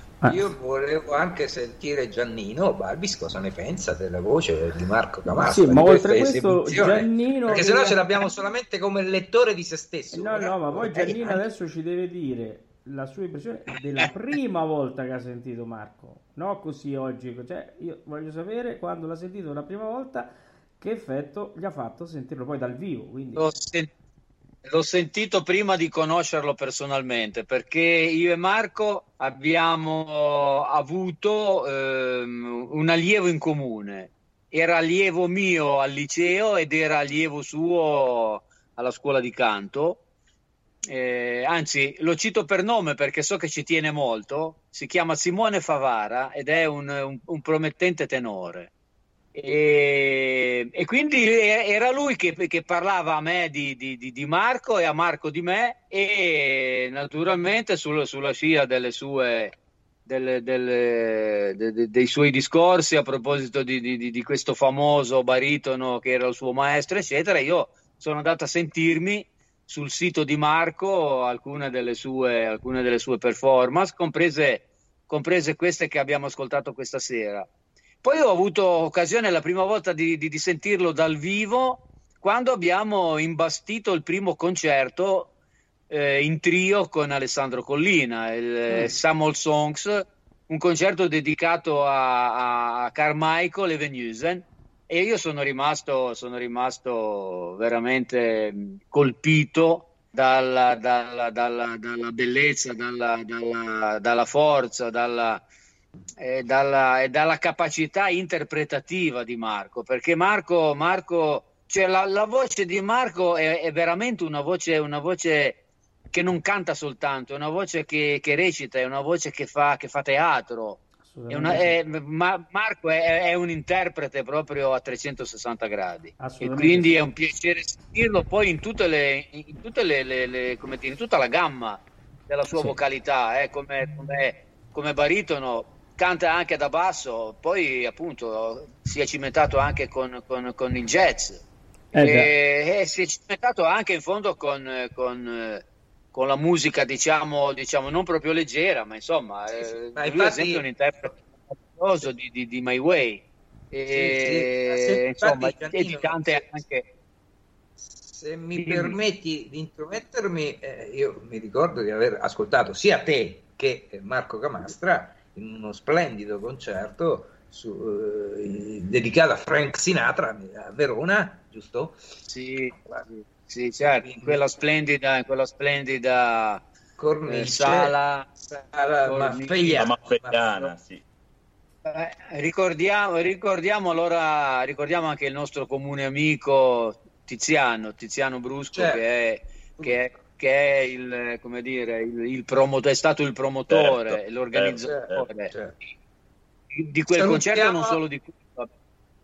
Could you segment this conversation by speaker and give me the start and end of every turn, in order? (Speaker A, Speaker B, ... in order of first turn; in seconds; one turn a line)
Speaker A: 0.2-0.5
Speaker B: 0.2-11.4
Speaker A: 5.4-8.0
Speaker A: 10.1-23.5
Speaker C: 23.4-23.9
Speaker C: 24.6-40.0
Speaker C: 40.9-48.7
Speaker C: 49.3-59.5
Speaker C: 60.1-77.5
Speaker C: 78.0-85.3
Speaker C: 85.9-105.4
Speaker C: 106.2-115.6
Speaker C: 116.1-141.4
Speaker A: 121.0-121.8
Speaker A: 126.2-127.0
Speaker A: 141.9-142.3
Speaker C: 142.0-156.9
Speaker B: 149.6-150.6
Speaker B: 153.9-156.5
Speaker B: 157.8-172.0
Speaker C: 158.6-159.0
Speaker C: 172.3-176.6
Speaker B: 174.0-174.4
Speaker B: 177.0-180.7
Speaker C: 177.3-178.2
Speaker C: 179.1-179.9
Speaker D: 179.8-181.0
Speaker C: 181.8-195.5
Speaker B: 188.7-189.0
Speaker D: 193.7-195.2
Speaker B: 194.9-195.8
Speaker C: 196.7-198.7
Speaker B: 197.1-198.0